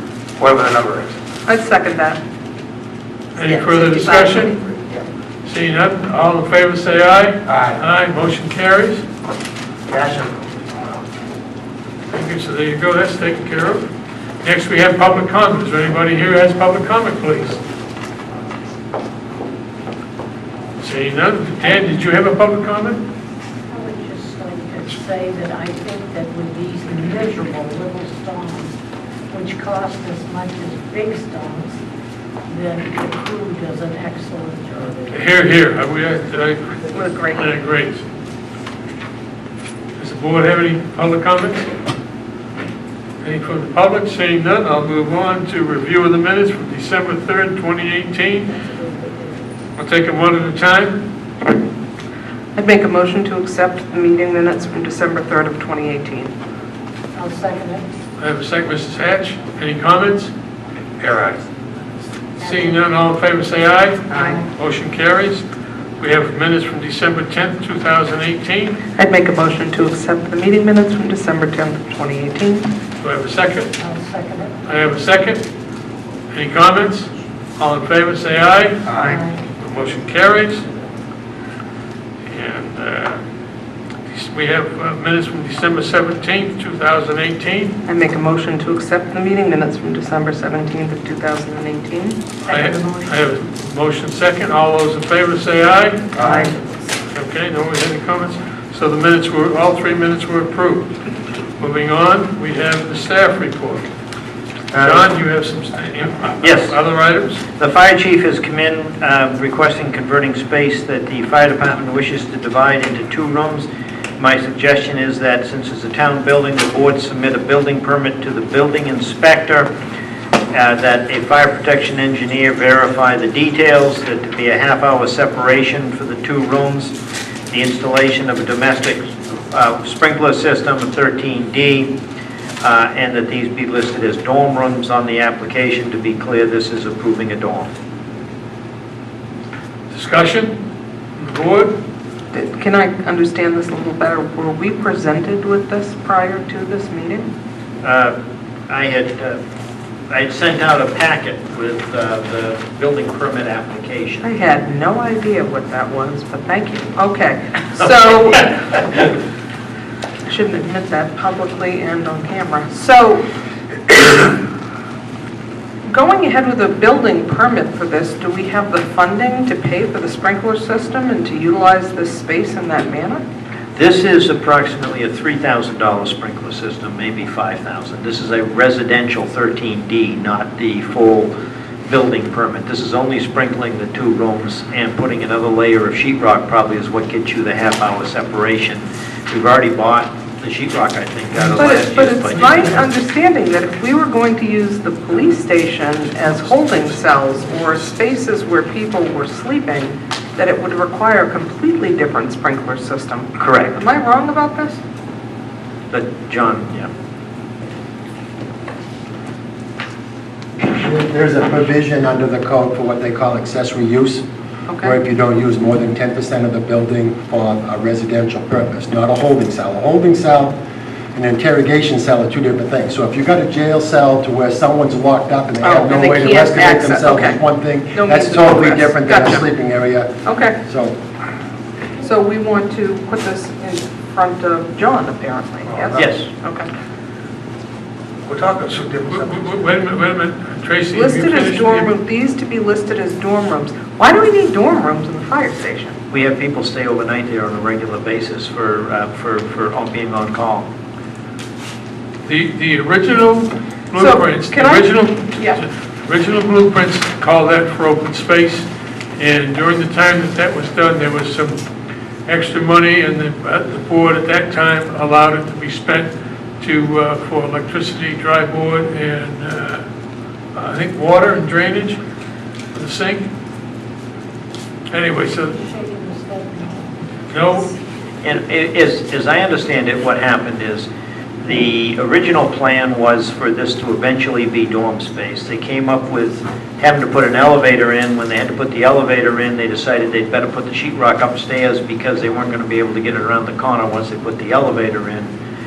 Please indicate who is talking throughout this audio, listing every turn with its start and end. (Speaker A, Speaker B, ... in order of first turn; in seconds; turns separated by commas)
Speaker A: 0.4-1.1, Speaker B: 1.4-2.2, Speaker C: 3.3-4.5, Speaker B: 3.4-4.7, Speaker C: 5.4-9.0, Speaker A: 7.5-7.8, Speaker A: 9.9-10.3, Speaker C: 12.1-13.9, Speaker C: 14.4-17.6, Speaker C: 20.8-23.1, Speaker D: 23.7-28.8, Speaker D: 29.3-31.8, Speaker D: 32.5-35.2, Speaker C: 35.1-38.0, Speaker B: 36.9-37.5, Speaker C: 40.0-41.7, Speaker C: 43.2-48.5, Speaker D: 48.5-49.6, Speaker C: 49.8-51.0, Speaker B: 52.5-56.3, Speaker D: 57.1-58.0, Speaker C: 58.2-60.3, Speaker A: 61.0-61.4, Speaker D: 62.4-62.8, Speaker C: 62.4-68.8, Speaker B: 64.1-64.4, Speaker D: 64.1-64.5, Speaker B: 68.9-72.7, Speaker C: 73.0-73.7, Speaker D: 73.8-74.9, Speaker C: 74.6-75.5, Speaker C: 76.3-79.0, Speaker A: 78.9-79.2, Speaker D: 79.0-79.5, Speaker C: 79.5-80.7, Speaker C: 82.2-83.2, Speaker C: 84.1-87.8, Speaker B: 87.8-92.3, Speaker D: 92.4-93.1, Speaker C: 92.5-96.2, Speaker A: 96.2-96.5, Speaker B: 96.2-96.6, Speaker C: 97.1-100.9, Speaker C: 101.6-103.9, Speaker E: 104.7-105.0, Speaker C: 104.7-107.4, Speaker E: 106.4-106.7, Speaker E: 107.5-119.7, Speaker E: 120.5-126.9, Speaker E: 127.5-131.9, Speaker E: 132.6-137.7, Speaker C: 139.9-140.6, Speaker C: 141.2-141.8, Speaker B: 142.3-147.3, Speaker E: 147.8-148.1, Speaker E: 148.7-149.4, Speaker E: 150.1-154.2, Speaker B: 154.2-158.9, Speaker B: 160.2-163.2, Speaker B: 165.8-173.2, Speaker E: 173.7-181.3, Speaker E: 181.8-192.6, Speaker B: 191.5-204.8, Speaker E: 203.3-203.8, Speaker E: 205.9-206.9, Speaker F: 210.6-214.2, Speaker B: 214.7-214.9, Speaker F: 214.8-220.6, Speaker F: 221.1-230.9, Speaker B: 225.6-227.4, Speaker B: 227.9-229.4, Speaker B: 230.2-230.6, Speaker B: 232.0-236.7, Speaker A: 235.7-236.1, Speaker E: 235.9-236.2, Speaker A: 238.2-239.5, Speaker C: 239.1-241.9, Speaker B: 240.9-245.9, Speaker E: 246.1-250.7, Speaker C: 252.2-261.6, Speaker B: 253.9-255.6, Speaker C: 262.2-269.8, Speaker C: 270.5-272.0, Speaker C: 272.7-273.3, Speaker C: 274.9-275.5, Speaker D: 275.3-277.5, Speaker C: 277.3-277.7, Speaker E: 278.2-280.9, Speaker E: 281.4-295.3